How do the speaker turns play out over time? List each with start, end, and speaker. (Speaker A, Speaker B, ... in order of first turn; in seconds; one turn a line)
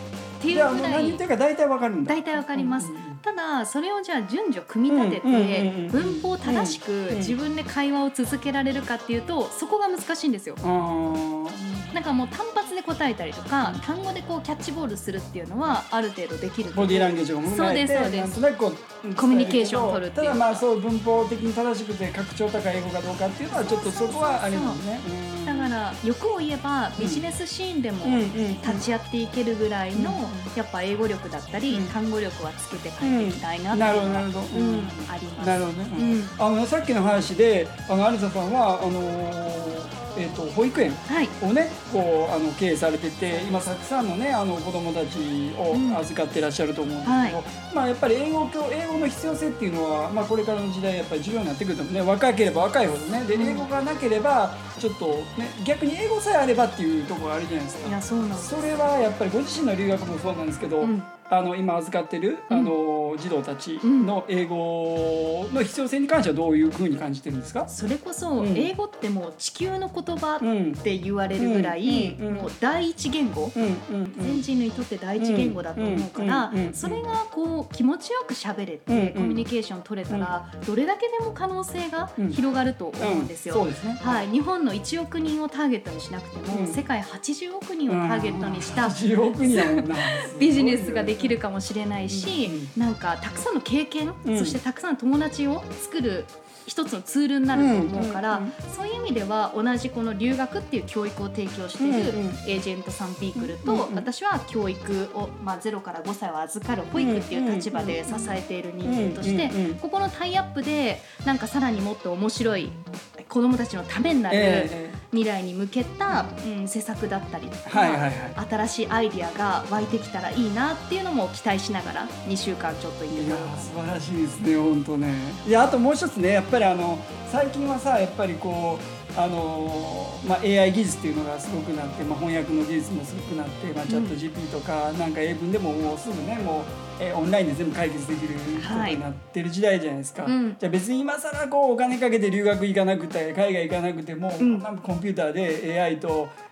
Speaker A: 0.4-1.2
Speaker B: 0.5-3.2
Speaker A: 2.0-10.6
Speaker B: 4.9-7.4
Speaker B: 10.6-12.0
Speaker A: 11.9-18.4
Speaker B: 16.7-25.7
Speaker A: 19.2-20.6
Speaker A: 23.5-24.8
Speaker A: 25.4-36.4
Speaker B: 27.0-27.3
Speaker B: 28.0-28.9
Speaker B: 29.9-30.5
Speaker B: 31.7-31.9
Speaker B: 33.0-67.7
Speaker A: 41.1-41.3
Speaker A: 45.7-46.0
Speaker A: 47.0-47.4
Speaker A: 53.3-53.7
Speaker A: 57.8-58.6
Speaker A: 60.8-61.1
Speaker A: 63.8-64.1
Speaker A: 67.7-73.6
Speaker B: 68.4-68.7
Speaker B: 70.4-70.8
Speaker B: 71.4-72.5
Speaker B: 73.5-74.5
Speaker A: 74.1-123.8
Speaker B: 75.2-77.1
Speaker B: 78.9-79.5
Speaker B: 83.0-84.3
Speaker B: 86.5-86.8
Speaker B: 87.9-91.4
Speaker B: 92.1-92.7
Speaker B: 94.2-94.6
Speaker B: 97.5-98.5
Speaker B: 101.8-102.4
Speaker B: 103.3-104.1
Speaker B: 107.0-109.8
Speaker B: 114.3-115.0
Speaker B: 117.7-118.4
Speaker B: 123.1-146.3
Speaker A: 133.9-134.1
Speaker A: 138.5-139.0
Speaker A: 140.2-140.6
Speaker A: 144.4-144.7